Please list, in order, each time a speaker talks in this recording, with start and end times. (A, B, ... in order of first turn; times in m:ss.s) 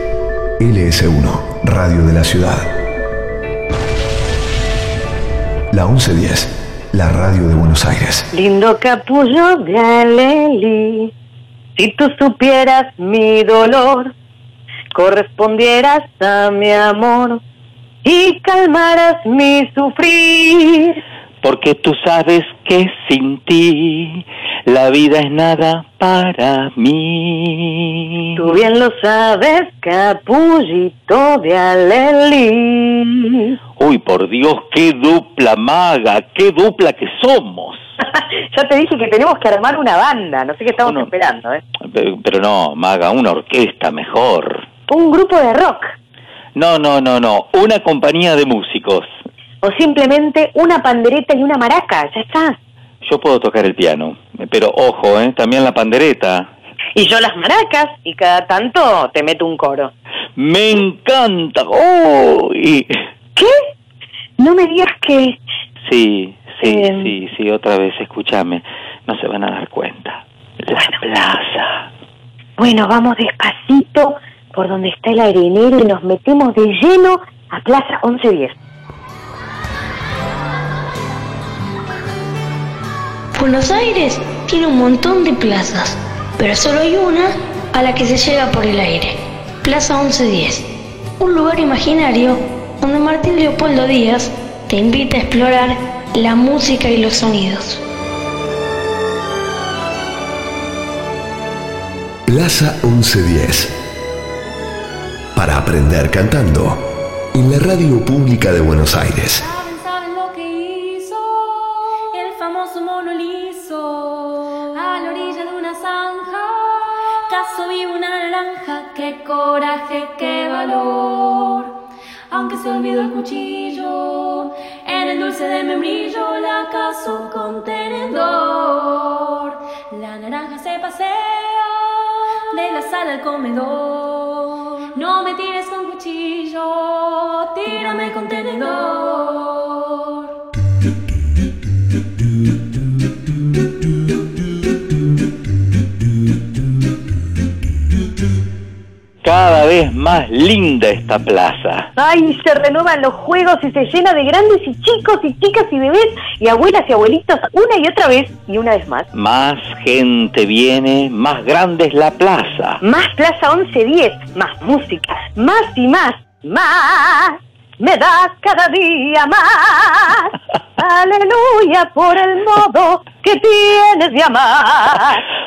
0:00.6-0:02.7 A
0:05.7-0:08.3 A
0:08.3-0:11.1 B
0:11.8-0:14.1 B
0:14.9-0:17.4 B
0:18.0-0:21.0 B
0:21.4-0:28.4 C
0:28.4-0:33.6 B
0:33.8-0:37.9 C
0:38.0-0:41.6 B
0:40.8-0:41.1 C
0:41.9-0:44.6 C
0:44.9-0:45.9 B
0:46.6-0:49.1 C
0:49.6-0:52.6 B
0:53.0-0:56.5 C
0:57.0-0:59.9 B
1:00.4-1:03.0 C
1:04.4-1:05.4 B
1:05.8-1:11.9 C
1:06.6-1:07.1 B
1:12.6-1:18.6 B
1:23.4-1:30.6 D
1:31.2-1:37.8 D
1:42.3-1:43.7 A
1:45.4-1:46.8 A
1:47.3-1:49.4 A
1:49.4-2:01.7 E
2:02.3-2:11.8 E
2:12.5-2:20.2 E
2:29.2-2:31.9 C
2:32.0-2:39.1 B
2:39.1-2:42.8 C
2:42.8-2:55.2 B